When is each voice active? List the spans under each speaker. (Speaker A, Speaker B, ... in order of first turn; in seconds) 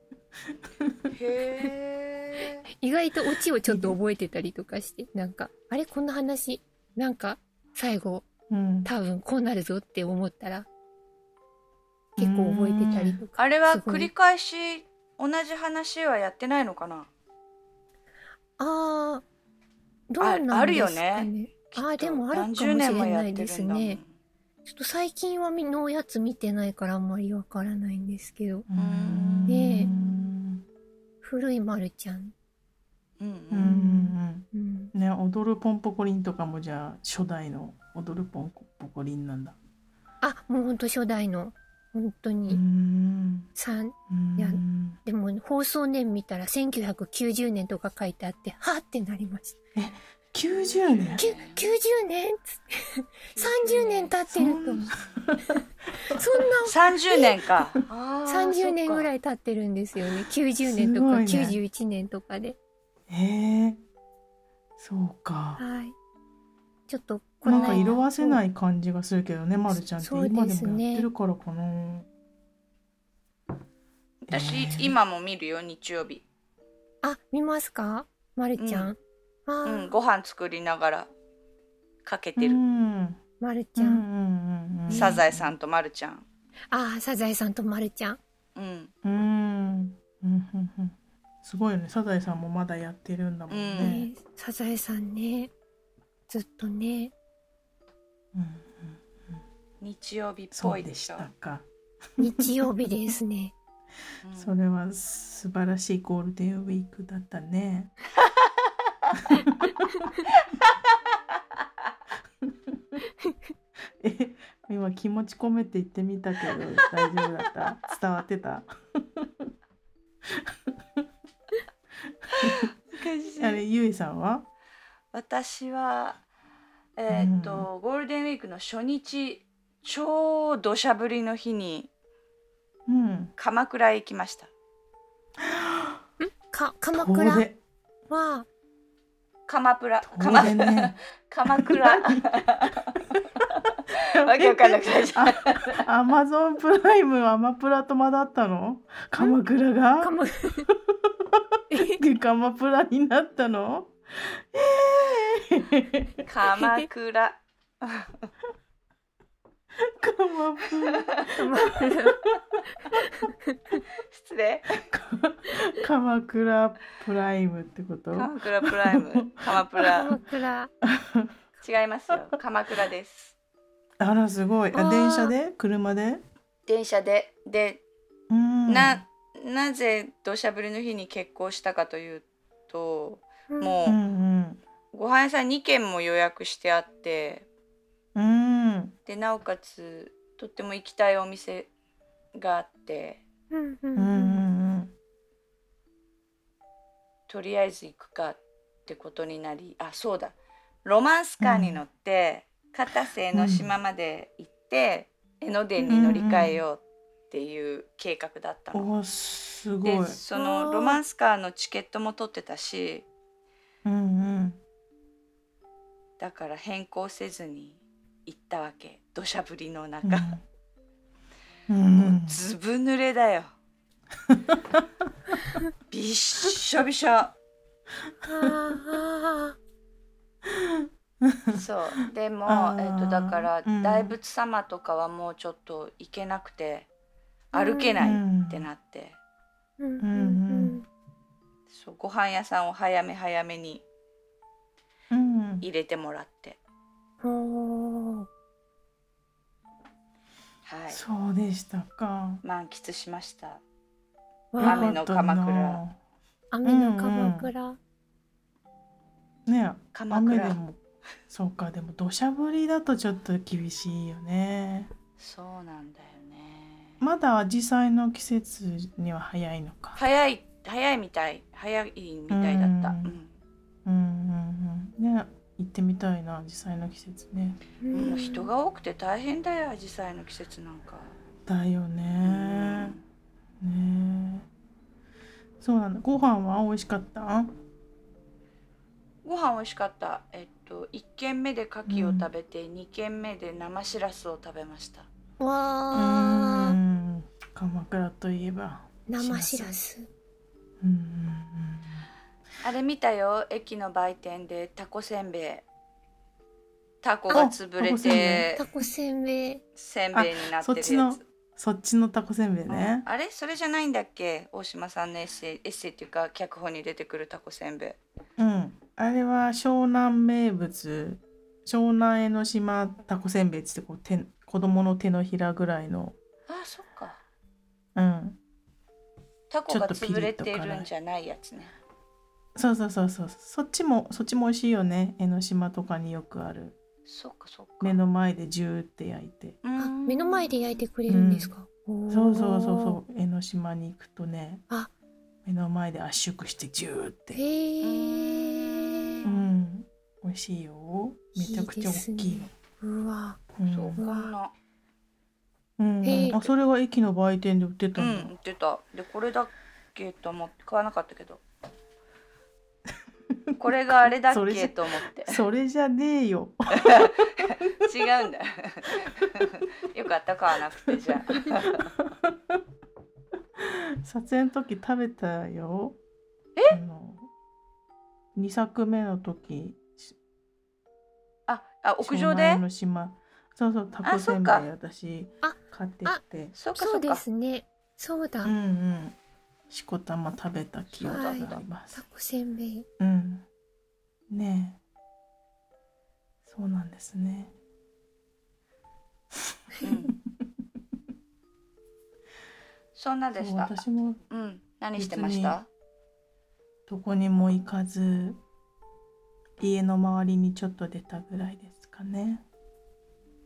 Speaker A: 1.1-2.7, 13.4-17.1, 20.2-24.1, 28.7-30.1, 33.2-33.7, 50.5-51.8, 53.3-54.1, 56.6-59.1, 67.5-68.0, 74.2-76.2, 78.6-78.9, 79.6-81.1, 82.0-82.6, 84.9-86.2, 88.5-88.9, 93.5-94.1, 99.8-101.3, 104.2-104.5, 122.4-123.6, 125.1-126.2, 127.0-131.9, 133.4-134.5, 139.5-142.8, 144.2-145.8, 156.2-158.3, 164.1-164.8, 168.1-170.1, 171.6-173.3, 176.7-177.8, 178.7-184.0, 184.9-187.5, 189.1-191.7, 192.3-193.2, 197.3-208.9, 209.8-213.1, 216.2-220.3, 221.9-223.5, 225.9-227.3, 231.5-236.9, 237.5-239.2, 241.7-243.8, 245.6-246.6, 250.7-251.0, 252.4-253.6, 254.6-255.8, 259.9-260.6, 265.2-267.0, 269.9-273.3, 277.9-281.1, 282.2-283.0, 289.2-295.1, 302.6-305.6, 307.0-308.6, 309.8-311.2, 312.7-318.0, 326.5-327.2, 329.5-331.7, 337.0-338.0, 339.6-340.5, 347.8-349.2, 353.7-354.5, 357.9-361.4, 363.6-365.4, 366.8-371.9, 381.5-382.6, 384.0-384.7, 386.5-387.2, 390.9-391.5, 399.8-400.1, 402.9-405.7
Speaker B: 2.8-8.2, 8.8-10.7, 12.2-14.1, 18.6-19.2, 20.1-24.0, 24.6-28.6, 29.5-29.9, 31.2-32.3, 33.6-34.9, 40.2-42.6, 43.5-49.5, 51.1-54.9, 55.5-57.2, 58.2-62.6, 65.6-65.9, 66.9-68.4, 69.7-71.1, 77.0-79.9, 83.4-84.0, 84.9-85.2, 86.7-88.2, 93.8-95.5, 96.3-97.1, 102.2-103.5, 136.2-137.4, 138.1-138.4, 150.0-150.7, 151.7-152.0, 161.4-162.2, 169.9-170.7, 174.7-175.3, 183.5-183.8, 193.5-194.4, 210.3-211.0, 228.2-229.5, 237.5-238.1, 239.8-240.8, 247.2-248.3, 254.5-254.9, 256.5-257.8, 277.8-278.5, 295.4-296.8, 299.1-300.1, 308.1-309.6, 339.8-343.0, 347.3-349.4, 351.3-353.4, 354.0-354.3, 356.0-356.5, 385.4-386.2, 386.7-388.5, 391.0-392.9
Speaker C: 3.6-4.0, 8.5-8.9, 12.2-13.2, 28.7-30.6, 33.5-39.6, 42.5-43.5, 44.1-45.0, 49.8-51.2, 54.3-55.6, 60.6-61.6, 63.1-63.8, 64.8-65.6, 67.4-72.1, 74.3-75.0, 82.3-83.2, 83.8-85.5, 89.0-94.1, 98.3-99.4, 100.5-101.7, 102.2-102.6, 104.3-107.9, 109.3-110.0, 114.0-119.5, 120.5-121.0, 122.2-122.7, 123.4-124.5, 127.1-127.7, 132.9-133.3, 135.6-136.0, 136.9-137.6, 140.0-140.9, 141.5-142.1, 144.3-150.9, 151.8-156.1, 159.9-162.3, 164.9-170.1, 170.9-171.3, 174.0-176.2, 178.3-179.0, 183.8-184.6, 188.1-188.9, 193.9-194.9, 201.4-201.8, 203.3-203.7, 205.8-206.6, 208.7-210.2, 213.8-214.6, 220.0-220.4, 221.7-222.4, 224.3-224.8, 228.4-228.8, 230.4-231.6, 232.4-234.1, 238.0-238.7, 240.0-240.8, 245.1-245.7, 250.9-252.4, 254.6-256.0, 256.6-257.5, 259.5-260.8, 261.3-264.9, 267.0-270.0, 272.3-273.1, 273.8-278.1, 281.4-283.0, 283.6-284.5, 285.6-287.5, 291.9-292.3, 295.9-299.8, 300.8-302.1, 307.3-308.5, 310.1-313.1, 318.4-326.1, 327.9-328.4, 329.7-330.9, 332.6-336.8, 337.8-339.6, 341.1-341.5, 342.1-344.6, 345.4-347.4, 349.2-352.5, 353.6-354.0, 355.8-358.3, 363.3-363.6, 364.2-367.3, 372.0-372.6, 373.6-376.0, 376.7-377.3, 378.3-380.1, 382.0-386.5, 388.4-389.1, 389.7-392.0, 393.0-393.4, 394.3-394.8, 396.4-397.6, 403.3-404.2, 404.9-405.6, 406.9-408.4, 409.6-412.4